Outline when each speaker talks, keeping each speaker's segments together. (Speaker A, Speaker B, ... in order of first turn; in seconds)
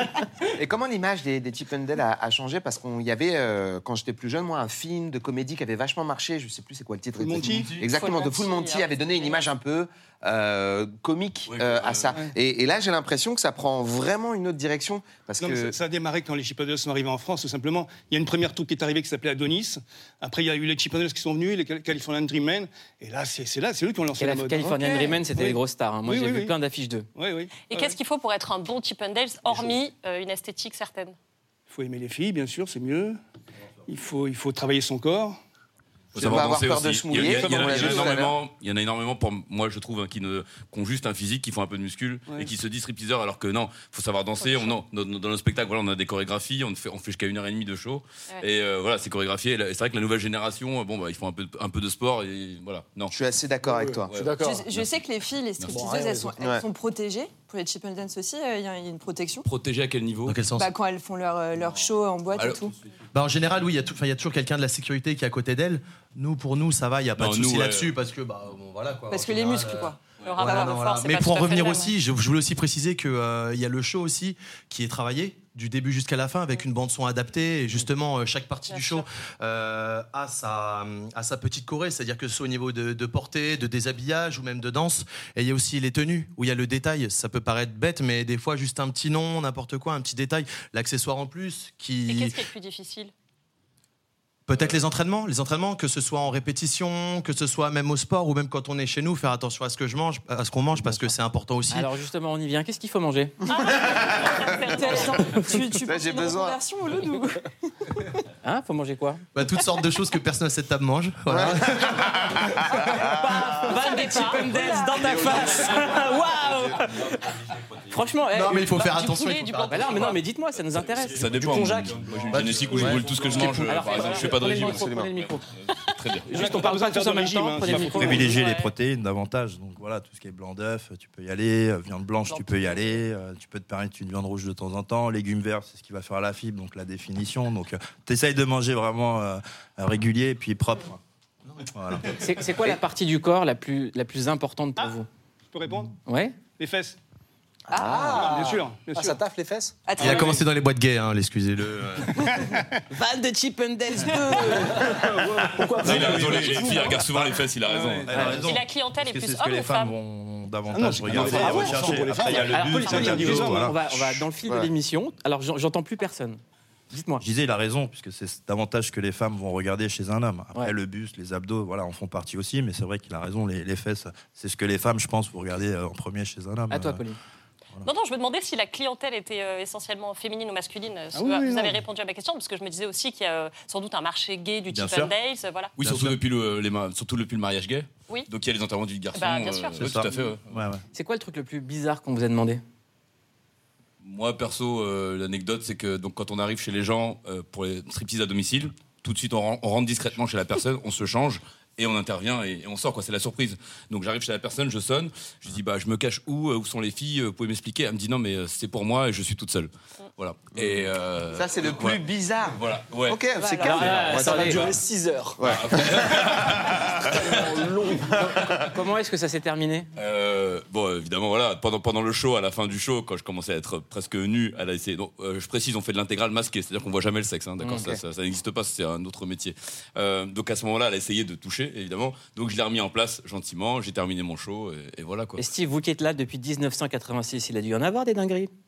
Speaker A: 0.6-15.8, 36.2-38.3, 53.1-54.1, 103.7-104.5, 105.8-106.6, 111.3-113.1, 124.7-125.1, 164.4-164.7, 210.6-214.5, 215.4-216.3
Speaker B: 7.2-7.8, 15.4-26.5, 27.1-28.0, 31.7-33.2, 33.9-35.4, 37.2-38.2, 126.3-128.3, 145.5-145.9, 146.6-147.0, 148.1-149.2, 157.7-158.1, 160.7-163.7, 181.1-181.8
Speaker C: 7.8-9.5, 27.7-31.2, 44.4-44.8, 70.2-72.0, 78.7-79.1, 92.1-93.1, 103.5-105.5, 113.6-114.8, 118.7-120.2, 132.3-132.9, 158.3-159.9, 177.8-185.7, 189.1-189.8
Speaker D: 11.5-12.1, 36.1-53.1, 54.1-55.0, 55.6-55.9, 59.5-60.4, 62.4-62.6, 67.2-68.0, 117.0-117.6, 121.0-126.3, 155.8-158.3, 161.1-162.3, 185.8-190.6, 194.0-214.8, 215.4-218.6, 220.0-235.4
Speaker E: 24.2-27.1, 101.7-103.4, 105.2-105.7, 108.4-109.3, 112.8-117.3, 117.9-118.8, 119.7-121.2, 123.6-125.5, 126.2-128.7, 142.1-145.1, 146.1-146.4, 152.9-154.9, 162.4-166.4, 166.9-167.2, 176.7-177.2, 190.9-192.6, 213.6-214.7, 218.5-219.9, 227.6-227.9, 235.4-238.5
Speaker F: 53.6-54.7, 55.7-56.5, 121.2-124.4, 147.8-149.8, 154.4-157.1, 161.2-161.8, 213.7-215.5, 217.0-218.6
Speaker G: 54.4-59.5, 60.5-62.7, 69.1-70.7, 104.7-107.4, 113.9-115.4, 147.7-148.1, 149.8-150.4
Speaker H: 60.3-60.7, 63.1-92.4, 94.5-101.9, 109.3-112.2, 118.3-120.2, 150.0-152.1
Speaker I: 127.7-141.0, 141.7-142.2, 158.1-164.1, 167.2-177.0, 184.7-185.1, 185.8-186.2, 189.8-190.8